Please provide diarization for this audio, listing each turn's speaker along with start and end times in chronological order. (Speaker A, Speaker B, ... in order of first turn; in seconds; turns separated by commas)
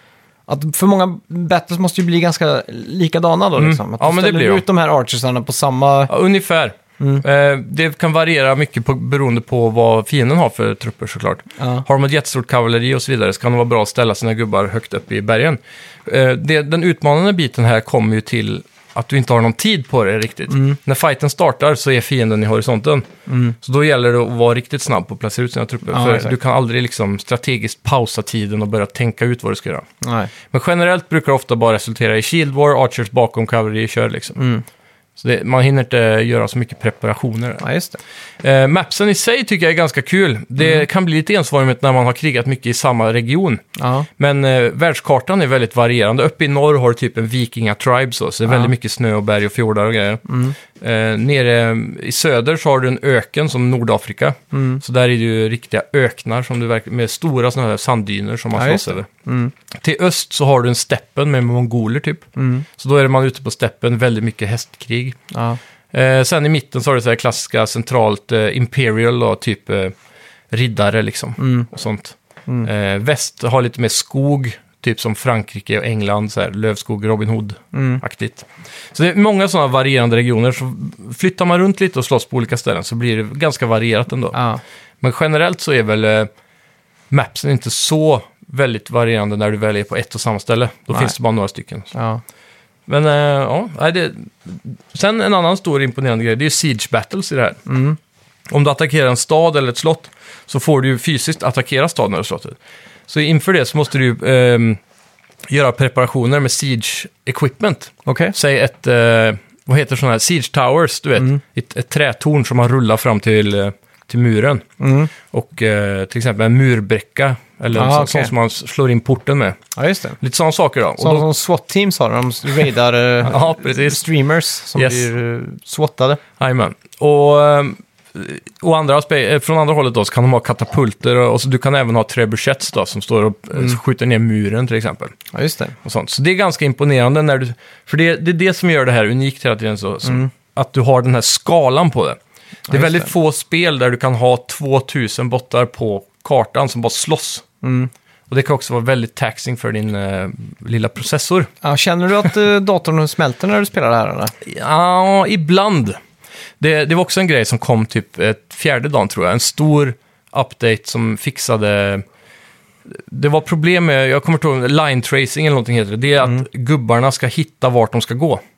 Speaker A: 0.5-6.1, Speaker B: 3.6-4.6, Speaker B: 6.1-23.1, Speaker A: 11.6-11.8, Speaker A: 20.5-20.8, Speaker A: 23.3-23.6, Speaker B: 23.6-29.9, Speaker A: 25.9-26.3, Speaker A: 30.0-30.3, Speaker B: 30.5-34.4, Speaker A: 34.4-34.6, Speaker B: 35.2-37.6, Speaker A: 37.6-38.0, Speaker B: 38.4-43.6, Speaker A: 43.8-44.1, Speaker B: 44.2-59.1, Speaker A: 50.3-50.6, Speaker A: 54.5-54.8, Speaker A: 58.5-59.5, Speaker B: 59.8-65.2, Speaker A: 62.4-62.7, Speaker A: 65.3-65.6, Speaker B: 65.9-69.9, Speaker B: 70.5-84.4, Speaker A: 71.4-71.7, Speaker A: 77.7-78.0, Speaker A: 84.3-84.6, Speaker B: 85.0-86.3, Speaker B: 87.1-91.9, Speaker A: 91.9-92.2, Speaker B: 92.9-97.6, Speaker A: 97.7-98.0, Speaker B: 98.5-102.6, Speaker B: 103.1-104.8, Speaker B: 105.5-114.7, Speaker A: 108.1-108.3, Speaker A: 114.8-115.1, Speaker B: 115.2-119.6, Speaker A: 117.7-118.3, Speaker A: 119.8-120.2, Speaker B: 120.2-121.3, Speaker A: 121.0-126.2, Speaker B: 123.2-124.0, Speaker B: 124.8-125.1, Speaker B: 126.4-135.2, Speaker A: 135.3-135.8, Speaker B: 135.8-147.5, Speaker A: 142.7-143.1, Speaker A: 147.6-147.9, Speaker B: 148.3-151.5, Speaker A: 151.6-154.3, Speaker B: 154.4-156.0, Speaker B: 156.6-162.0, Speaker B: 162.9-168.4